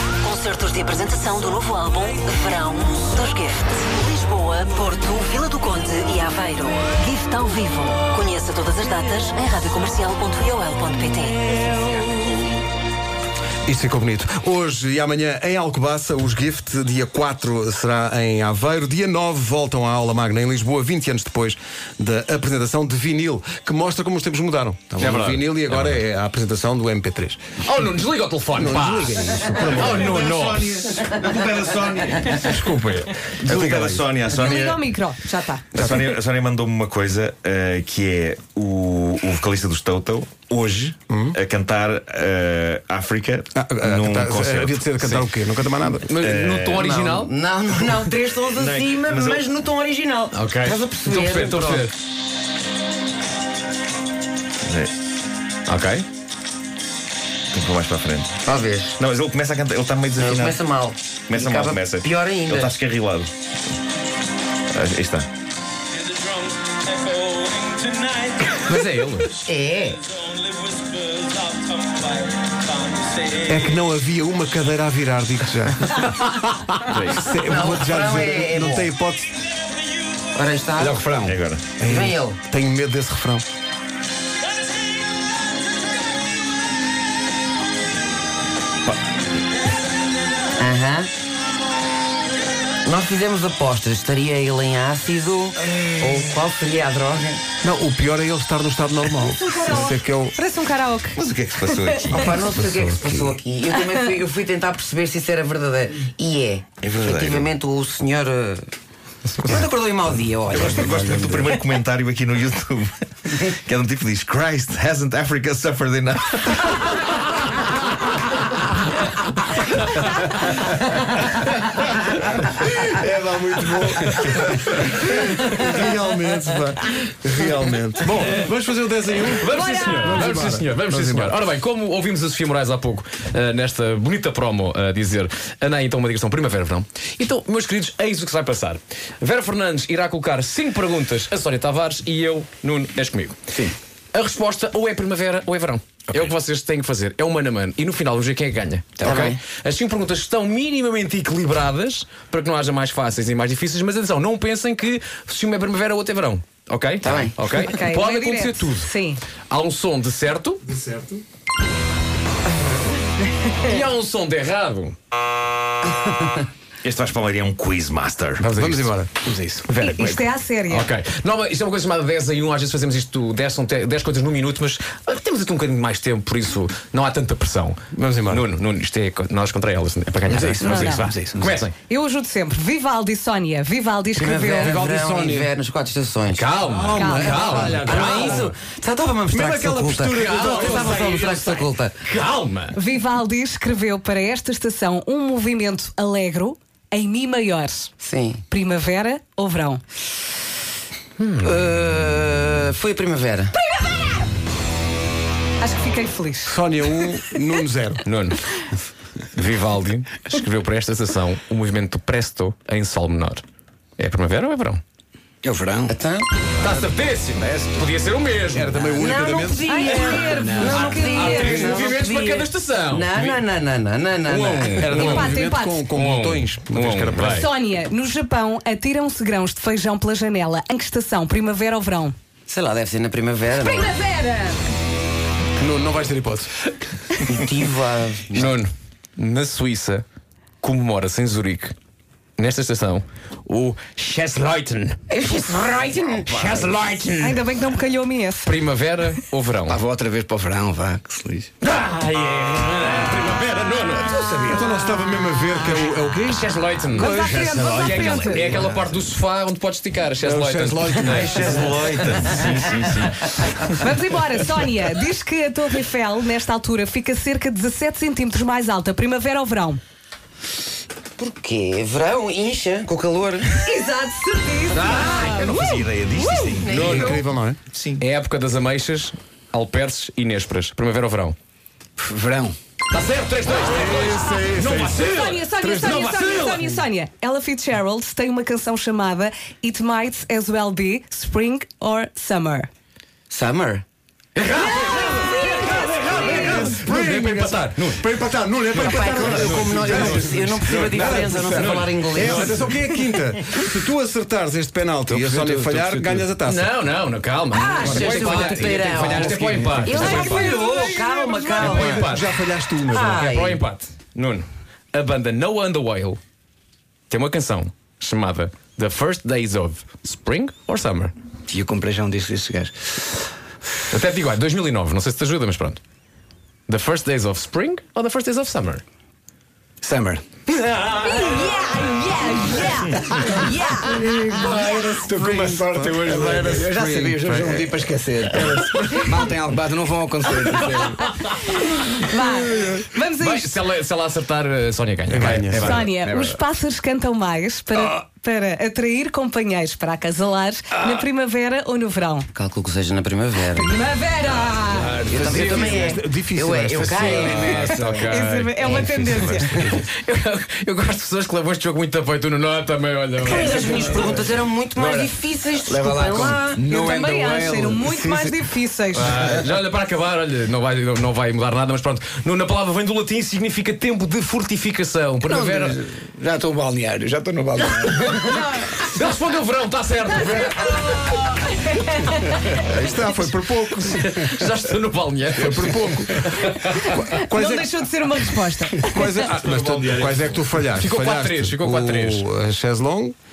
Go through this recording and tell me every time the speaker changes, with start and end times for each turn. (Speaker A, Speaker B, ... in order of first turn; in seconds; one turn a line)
Speaker A: 0.2-11.8
Speaker B: 2.6-3.1
Speaker C: 13.7-27.6
Speaker D: 25.0-26.0
Speaker D: 27.6-30.8
Speaker C: 28.5-30.2
Speaker E: 29.6-32.6
Speaker D: 32.3-32.9
Speaker C: 32.5-34.5
Speaker E: 33.4-34.9
Speaker F: 34.3-35.8
Speaker E: 35.7-45.0
Speaker C: 35.8-36.2
Speaker C: 41.1-41.4
Speaker C: 43.5-46.1
Speaker D: 46.1-47.3
Speaker E: 46.2-46.9
Speaker B: 46.8-51.9
Speaker E: 48.5-49.5
Speaker D: 50.3-52.0
Speaker E: 54.6-54.9
Speaker D: 55.7-56.1
Speaker E: 57.5-58.4
Speaker B: 58.5-59.0
Speaker E: 59.0-60.6
Speaker B: 60.2-62.8
Speaker E: 61.3-63.3
Speaker E: 64.7-65.3
Speaker D: 68.5-69.3
Speaker B: 69.5-70.0
Speaker C: 73.4-76.4
Speaker D: 76.9-77.3
Speaker C: 77.1-79.3
Speaker B: 77.4-78.9
Speaker B: 80.3-81.0
Speaker G: 80.8-81.4
Speaker E: 81.3-81.8
Speaker C: 81.8-83.5
Speaker B: 81.8-82.4
Speaker B: 90.6-91.1
Speaker B: 92.8-97.4
Speaker C: 97.6-100.4
Speaker F: 99.5-102.1
Speaker E: 101.2-102.3
Speaker B: 102.1-108.7
Speaker C: 102.1-103.4
Speaker F: 103.8-104.1
Speaker E: 106.8-107.5
Speaker D: 109.3-109.7
Speaker B: 109.4-111.4
Speaker E: 110.5-117.0
Speaker C: 121.3-131.3
Speaker D: 128.1-128.4
Speaker D: 129.4-143.4
Speaker F: 129.5-130.2
Speaker D: 144.1-158.9
Speaker G: 149.0-149.3
Speaker B: 149.0-149.4
Speaker B: 157.0-157.7
Speaker F: 157.7-159.2
Speaker D: 159.5-160.6
Speaker C: 160.7-161.2
Speaker D: 163.6-165.0
Speaker E: 166.8-168.5
Speaker D: 168.4-168.9
Speaker C: 168.6-169.1
Speaker G: 169.2-169.7
Speaker D: 169.7-181.7
Speaker F: 169.8-170.9
Speaker C: 177.9-178.5
Speaker G: 180.3-181.6
Speaker F: 180.6-181.1
Speaker F: 181.9-184.8
Speaker B: 184.2-186.5
Speaker C: 184.6-185.5
Speaker D: 186.3-188.5
Speaker C: 186.7-188.5
Speaker F: 186.9-187.8
Speaker B: 187.7-192.0
Speaker C: 189.3-191.0
Speaker D: 190.0-192.8
Speaker F: 192.7-197.9
Speaker B: 198.0-198.4
Speaker F: 198.5-199.8
Speaker D: 201.2-201.6
Speaker B: 201.4-203.5
Speaker F: 203.6-204.3
Speaker F: 205.6-206.6
Speaker C: 206.5-208.1
Speaker D: 208.1-208.4
Speaker D: 209.3-213.4
Speaker D: 214.0-214.8
Speaker G: 215.4-216.0
Speaker B: 215.9-216.3
Speaker D: 216.6-218.8
Speaker G: 217.4-217.9
Speaker C: 218.5-219.7
Speaker B: 219.0-225.3
Speaker F: 219.6-221.9
Speaker G: 220.1-221.4
Speaker D: 220.6-223.4
Speaker C: 224.3-227.4
Speaker D: 224.6-225.3
Speaker F: 225.0-225.9
Speaker D: 225.9-227.5
Speaker F: 227.3-232.2
Speaker B: 232.5-233.9
Speaker F: 233.5-234.7
Speaker C: 235.6-236.5
Speaker B: 237.2-238.6
Speaker D: 238.3-240.1
Speaker D: 240.6-241.8
Speaker D: 242.4-245.0
Speaker B: 245.1-246.6
Speaker D: 246.3-247.6
Speaker F: 247.2-248.6
Speaker D: 248.4-249.8
Speaker G: 249.7-251.5
Speaker D: 251.6-254.7
Speaker C: 254.4-257.9
Speaker F: 254.7-255.2
Speaker D: 256.1-261.7
Speaker F: 256.9-258.6
Speaker E: 257.4-258.5
Speaker G: 258.5-259.0
Speaker C: 260.2-261.8
Speaker E: 261.0-263.3
Speaker D: 262.4-263.1
Speaker F: 263.8-269.8
Speaker B: 271.2-273.6
Speaker F: 273.6-276.6
Speaker D: 274.7-275.2
Speaker E: 274.8-278.1
Speaker B: 276.6-277.2
Speaker C: 276.7-277.6
Speaker D: 278.0-281.4
Speaker G: 282.0-282.6
Speaker D: 282.9-285.5
Speaker C: 283.6-286.6
Speaker F: 284.2-284.5
Speaker F: 285.0-292.7
Speaker D: 286.2-286.7
Speaker B: 293.3-293.8
Speaker D: 294.4-298.0
Speaker F: 294.5-296.7
Speaker C: 296.0-301.4
Speaker B: 298.7-302.6
Speaker D: 298.8-300.4
Speaker G: 300.7-301.8
Speaker D: 301.5-302.6
Speaker C: 302.1-306.8
Speaker G: 305.1-306.4
Speaker D: 306.4-310.7
Speaker B: 307.5-312.2
Speaker C: 307.8-313.3
Speaker F: 311.0-311.7
Speaker D: 311.6-312.4
Speaker B: 312.8-313.6
Speaker D: 312.9-316.2
Speaker D: 317.1-321.1
Speaker G: 321.5-323.0
Speaker D: 323.9-325.8
Speaker D: 326.7-328.8
Speaker G: 329.8-330.2
Speaker D: 330.7-331.2
Speaker F: 331.0-334.0
Speaker G: 332.9-341.0
Speaker C: 333.9-339.1
Speaker F: 341.9-343.5
Speaker C: 342.5-342.9
Speaker D: 343.2-346.4
Speaker C: 345.1-345.8
Speaker F: 345.5-352.3
Speaker B: 352.3-353.7
Speaker F: 353.5-355.0
Speaker D: 354.6-355.8
Speaker G: 355.1-355.9
Speaker B: 355.1-357.8
Speaker C: 355.7-357.4
Speaker G: 356.7-359.7
Speaker D: 357.1-364.2
Speaker F: 357.9-359.7
Speaker C: 359.4-359.7
Speaker B: 363.2-366.7
Speaker G: 363.5-364.2
Speaker D: 364.8-365.1
Speaker G: 365.6-369.5
Speaker F: 366.6-369.2
Speaker D: 368.9-375.8
Speaker G: 375.3-378.3
Speaker D: 378.1-381.5
Speaker F: 378.4-378.7
Speaker F: 381.6-382.4
Speaker D: 382.0-382.3
Speaker C: 382.6-384.2
Speaker D: 383.9-386.9
Speaker C: 385.4-393.1
Speaker F: 386.8-389.2
Speaker D: 390.8-392.2